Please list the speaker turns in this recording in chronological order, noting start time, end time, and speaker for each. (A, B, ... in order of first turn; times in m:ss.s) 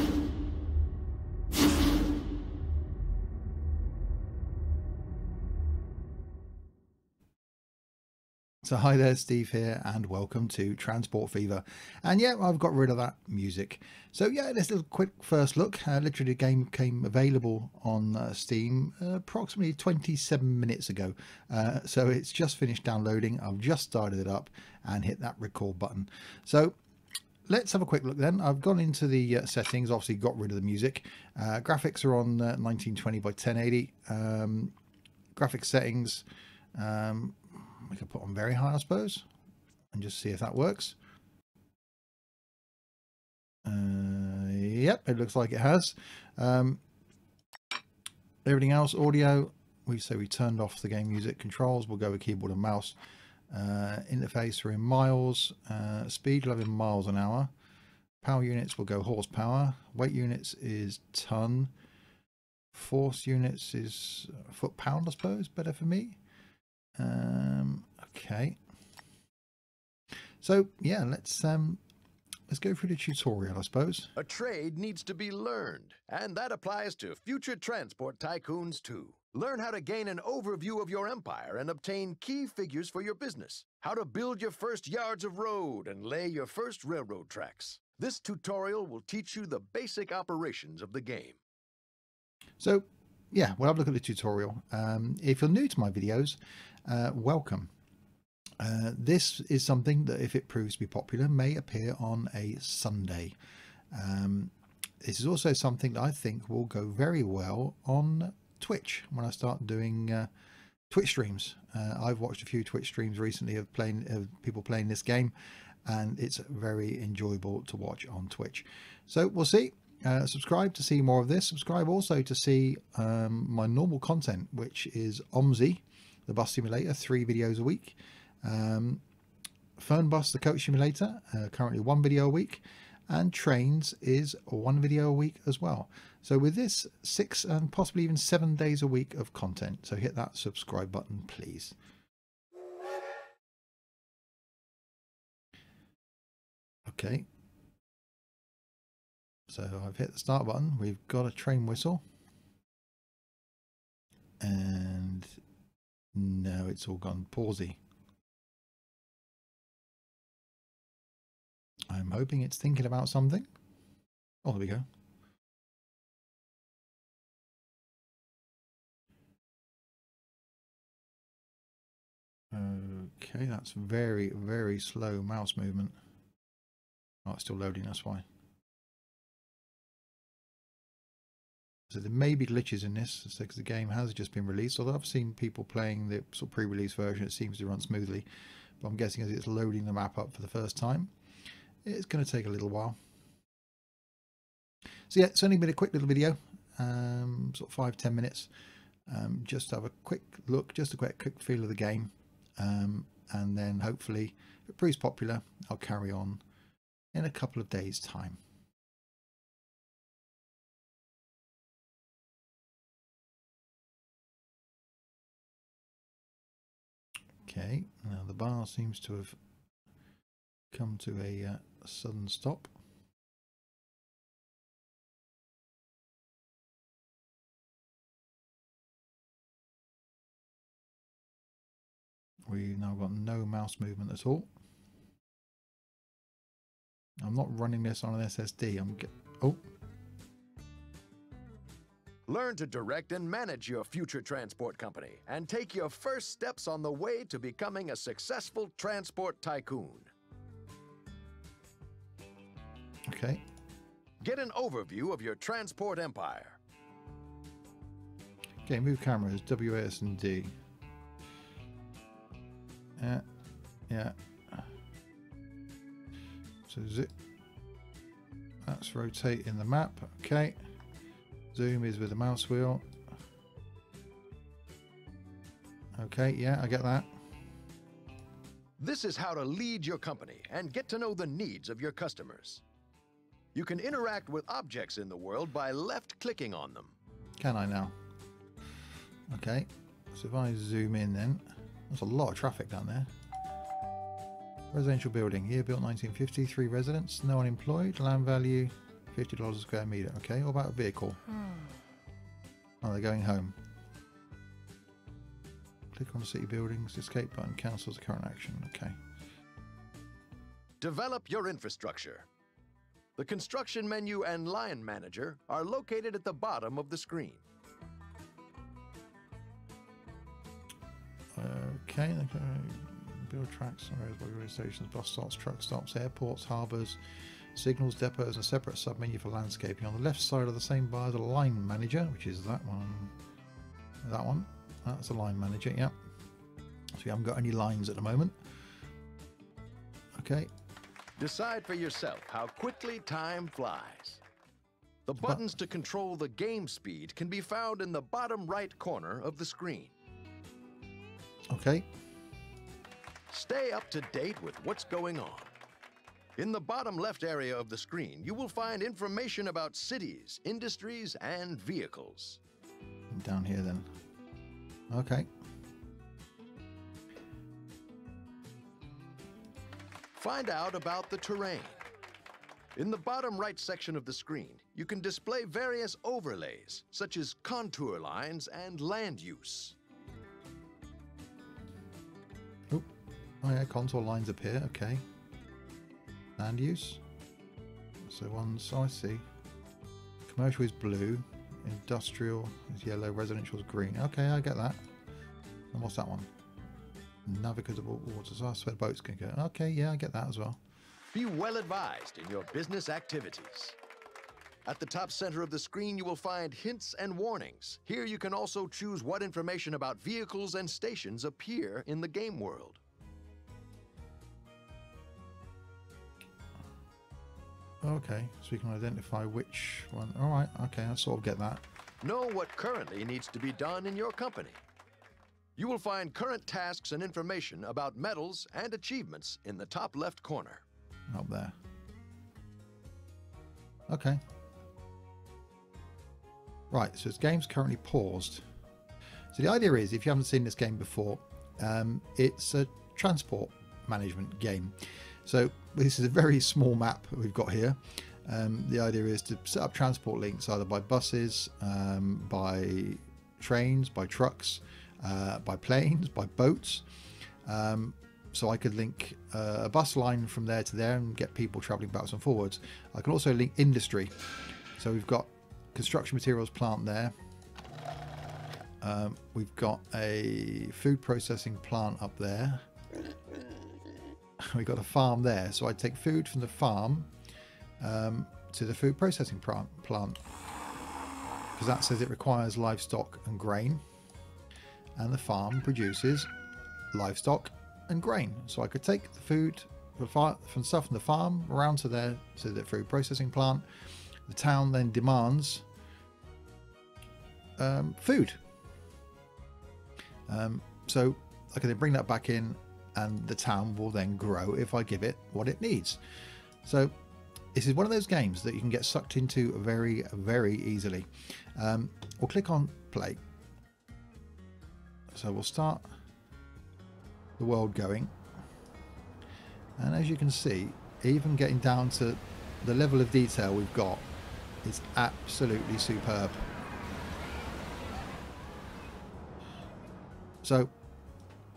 0:08.6-0:26.8 A
0:27.5-0:34.7 A
0:35.3-0:39.2 A
0:39.9-0:41.0 A
0:43.6-0:46.8 A
0:48.4-0:53.0 A
0:53.5-0:57.5 A
0:58.2-1:01.7 A
1:02.7-1:06.2 A
1:07.0-1:08.6 A
1:10.4-1:11.8 A
1:12.5-1:14.1 A
1:14.2-1:31.4 B
1:32.6-1:37.7 A
1:38.6-1:43.4 A
1:43.9-1:50.3 A
1:50.9-1:55.3 A
1:55.8-2:09.0 A
2:09.8-2:21.7 A
2:26.8-2:27.3 A
2:29.5-2:32.0 A
2:34.4-2:35.4 A
2:36.1-2:37.8 A
2:41.9-2:43.5 A
2:44.4-2:44.8 A
2:52.5-2:56.0 A
2:57.2-2:58.2 A
3:01.9-3:08.2 A
3:08.8-3:11.1 A
3:11.8-3:13.0 A
3:15.1-3:18.5 A
3:19.1-3:26.4 A
3:27.1-3:28.4 A
3:37.4-3:39.4 A
3:40.7-3:42.7 A
3:52.5-3:54.5 A
3:57.2-3:59.6 A
4:02.3-4:10.1 B
4:13.1-4:13.4 A
4:14.2-4:16.6 B
4:18.6-4:20.5 A
4:23.0-4:23.2 A
4:23.9-4:24.6 A
4:26.7-4:27.1 A
4:28.6-4:30.6 A
4:31.5-4:32.8 A
4:36.0-4:37.1 A
4:38.8-4:42.6 B
4:43.5-4:46.9 B
4:47.4-4:47.9 A
4:49.3-4:53.1 A
4:54.7-5:01.3 A
5:02.8-5:03.5 A
5:05.9-5:09.0 A
5:10.8-5:12.3 B
5:13.2-5:17.4 B
5:21.3-5:27.0 A
5:27.5-5:33.1 A
5:34.0-5:35.9 A
5:37.0-5:38.3 A
5:40.1-5:40.5 A
5:41.2-5:44.2 B
5:45.0-5:49.9 B
5:51.5-5:51.9 A
5:53.3-5:55.5 B
5:56.4-6:02.4 B
6:03.1-6:03.9 A
6:04.9-6:05.3 A
6:10.2-6:11.8 B
6:12.7-6:19.8 B
6:23.4-6:25.0 A
6:26.4-6:27.0 A
6:28.0-6:29.2 A
6:30.3-6:34.8 A
6:35.7-6:36.3 A
6:37.2-6:40.6 A
6:41.1-6:43.8 B
6:44.7-6:52.8 B
6:57.8-7:01.6 A
7:02.0-7:04.6 B
7:05.6-7:10.6 B
7:11.1-7:11.6 A
7:13.9-7:14.2 A
7:16.7-7:18.4 A
7:19.3-7:36.8 A
7:37.4-7:44.1 A
7:44.8-7:47.1 A
7:48.8-7:52.6 A
7:54.4-7:57.1 A
7:57.8-8:00.2 A
8:01.6-8:03.8 A
8:05.0-8:06.3 A
8:06.9-8:13.6 A
8:14.3-8:15.6 A
8:17.6-8:18.4 A
8:20.3-8:26.0 A
8:26.6-8:26.9 A
8:27.5-8:33.2 A
8:35.1-8:35.8 A
8:37.4-8:38.1 A
8:39.8-8:44.1 A
8:44.6-8:46.4 A
8:50.4-8:50.7 A